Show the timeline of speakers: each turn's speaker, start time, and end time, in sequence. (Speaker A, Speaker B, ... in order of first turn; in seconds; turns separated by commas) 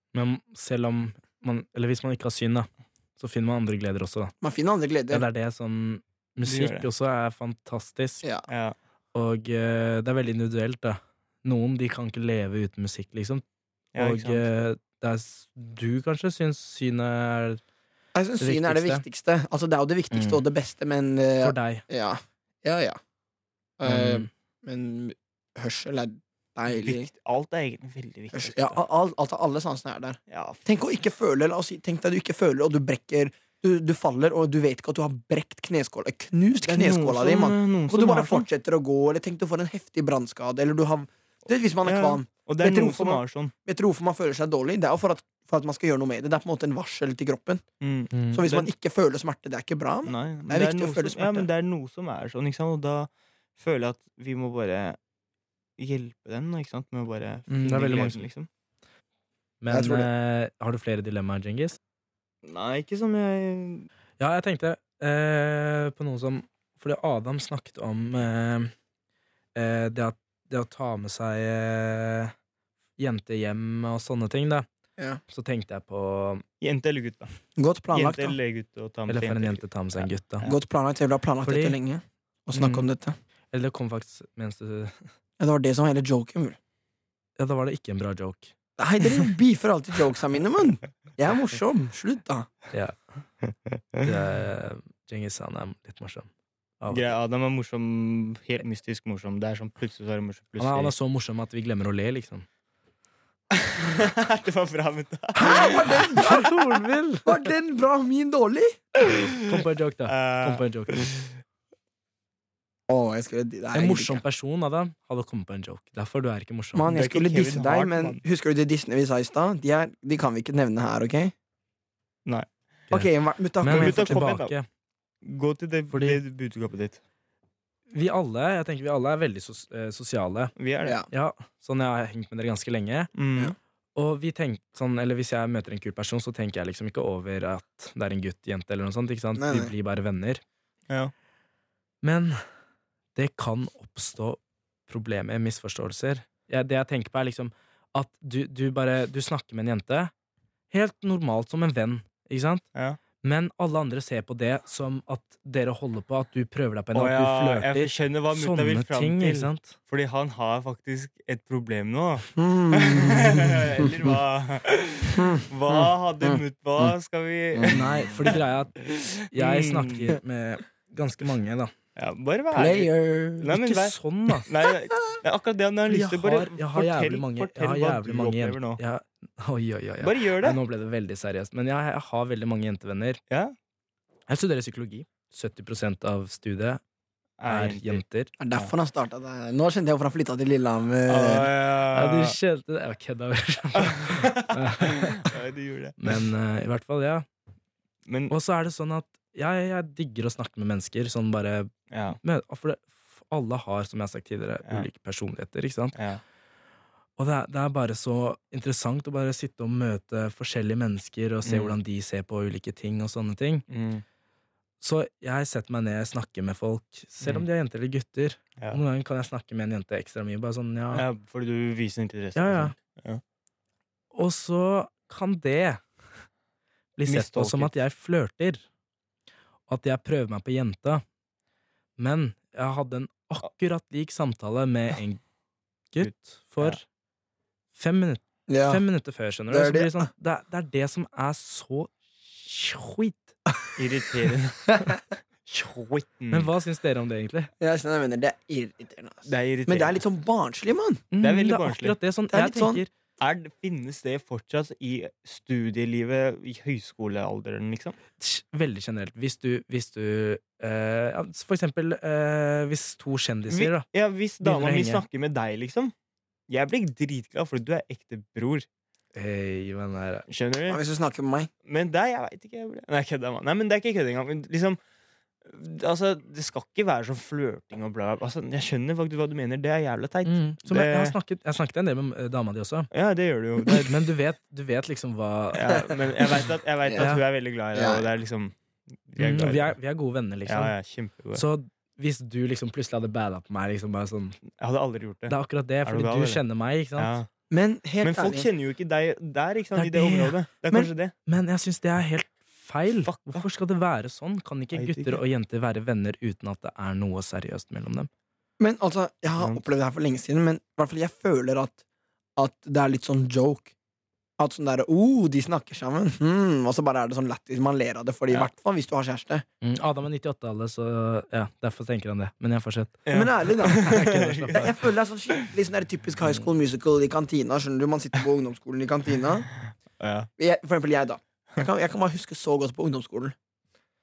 Speaker A: 0.1-4.3, Speaker B: 4.4-5.3, Speaker A: 5.1-8.2, Speaker C: 6.5-6.9, Speaker C: 8.5-8.8, Speaker A: 9.1-13.4, Speaker C: 13.9-14.5, Speaker A: 14.0-17.6, Speaker B: 18.1-23.0, Speaker A: 18.4-19.0, Speaker A: 20.1-20.4, Speaker A: 21.4-21.8, Speaker B: 23.8-27.1, Speaker A: 23.9-24.3, Speaker C: 26.7-28.8, Speaker B: 28.3-47.6, Speaker C: 30.3-30.6, Speaker C: 36.6-38.5, Speaker C: 41.8-43.5, Speaker C: 47.8-48.7, Speaker A: 48.1-48.4, Speaker B: 48.3-51.5, Speaker C: 50.1-55.0, Speaker C: 55.8-58.5, Speaker A: 57.5-58.3, Speaker A: 59.6-61.8, Speaker B: 59.7-60.1, Speaker C: 62.4-63.9, Speaker A: 64.2-68.7, Speaker A: 69.5-72.3, Speaker A: 73.0-74.7, Speaker A: 75.3-76.4, Speaker C: 76.6-77.3, Speaker B: 77.6-78.4, Speaker C: 77.9-80.6, Speaker A: 79.1-80.5, Speaker B: 80.4-83.2, Speaker A: 81.5-81.8, Speaker A: 82.5-82.9, Speaker A: 83.5-85.1, Speaker B: 85.4-86.6, Speaker A: 87.4-88.5, Speaker B: 88.8-92.5, Speaker A: 92.7-93.0, Speaker A: 94.0-96.3, Speaker A: 96.8-97.1, Speaker C: 96.9-100.9, Speaker A: 100.6-102.5, Speaker C: 103.5-105.9, Speaker B: 105.4-106.5, Speaker A: 106.1-107.3, Speaker B: 107.2-108.8, Speaker C: 109.0-111.1, Speaker A: 109.5-111.1, Speaker B: 112.9-114.2, Speaker A: 113.7-116.9, Speaker B: 116.7-121.3, Speaker C: 116.9-118.2, Speaker B: 122.9-124.3, Speaker A: 123.6-124.7, Speaker C: 123.7-124.5, Speaker C: 125.2-127.0, Speaker A: 125.9-126.2, Speaker A: 127.9-130.5, Speaker C: 130.6-131.0, Speaker A: 131.1-133.1, Speaker C: 133.2-133.6, Speaker A: 133.9-140.4, Speaker B: 139.4-139.7, Speaker A: 142.0-142.4, Speaker A: 143.2-150.1, Speaker A: 150.7-152.7, Speaker A: 153.2-159.8, Speaker C: 156.9-170.2, Speaker B: 162.4-164.1, Speaker B: 165.1-166.9, Speaker B: 167.5-167.9, Speaker A: 167.7-168.7, Speaker A: 169.3-171.7, Speaker C: 172.0-178.8, Speaker B: 172.5-173.5, Speaker A: 173.5-174.5, Speaker A: 175.9-183.2, Speaker C: 180.0-180.6, Speaker C: 183.3-183.6, Speaker A: 184.3-186.8, Speaker C: 187.4-188.0, Speaker A: 187.5-188.3, Speaker B: 188.4-191.5, Speaker C: 191.1-192.4, Speaker A: 191.9-195.3, Speaker C: 193.8-196.2, Speaker A: 196.0-197.3, Speaker C: 198.1-198.3, Speaker A: 198.3-201.7, Speaker C: 201.9-202.2, Speaker A: 202.2-205.9, Speaker C: 205.9-206.2, Speaker A: 207.2-213.7, Speaker C: 211.4-211.8, Speaker C: 213.7-214.0, Speaker A: 214.8-221.1, Speaker C: 217.2-217.5, Speaker C: 220.9-223.2, Speaker A: 222.4-222.8, Speaker A: 224.1-225.8, Speaker A: 227.0-228.6, Speaker C: 227.1-227.7, Speaker A: 229.7-231.0, Speaker A: 232.0-235.2, Speaker A: 235.9-236.8, Speaker C: 236.0-236.8, Speaker A: 237.7-243.4, Speaker B: 238.5-238.8, Speaker B: 239.5-240.1, Speaker C: 243.8-244.9, Speaker B: 244.7-245.0, Speaker C: 245.5-246.5, Speaker A: 246.3-247.5, Speaker B: 247.6-251.0, Speaker C: 249.3-250.0, Speaker A: 251.1-252.9, Speaker C: 251.2-252.0, Speaker B: 252.3-252.8, Speaker C: 253.2-258.0, Speaker A: 258.2-263.9, Speaker C: 263.5-265.9, Speaker A: 264.4-265.0, Speaker C: 266.5-268.7, Speaker A: 269.1-270.2, Speaker C: 270.3-270.8, Speaker B: 270.7-271.5, Speaker C: 271.7-274.8, Speaker C: 275.4-281.2, Speaker A: 280.2-282.9, Speaker C: 282.9-283.9, Speaker A: 283.9-285.9, Speaker C: 285.5-288.5, Speaker B: 286.9-287.1, Speaker A: 287.0-287.2, Speaker B: 287.7-288.1, Speaker C: 289.1-289.7, Speaker A: 289.2-290.7, Speaker C: 290.5-291.4, Speaker A: 291.3-294.4, Speaker C: 294.5-296.4, Speaker A: 295.3-297.2, Speaker C: 297.0-297.3, Speaker B: 297.5-298.5, Speaker C: 298.0-301.1, Speaker A: 299.8-300.4, Speaker A: 301.3-308.1, Speaker C: 303.0-303.4, Speaker C: 304.7-305.2, Speaker B: 308.6-311.8, Speaker C: 309.4-309.6, Speaker B: 312.4-313.7, Speaker B: 314.4-319.4, Speaker A: 319.6-323.0, Speaker C: 323.1-324.7, Speaker B: 323.1-323.9, Speaker A: 323.6-324.7, Speaker B: 324.5-329.5, Speaker C: 329.7-330.3, Speaker B: 330.4-333.4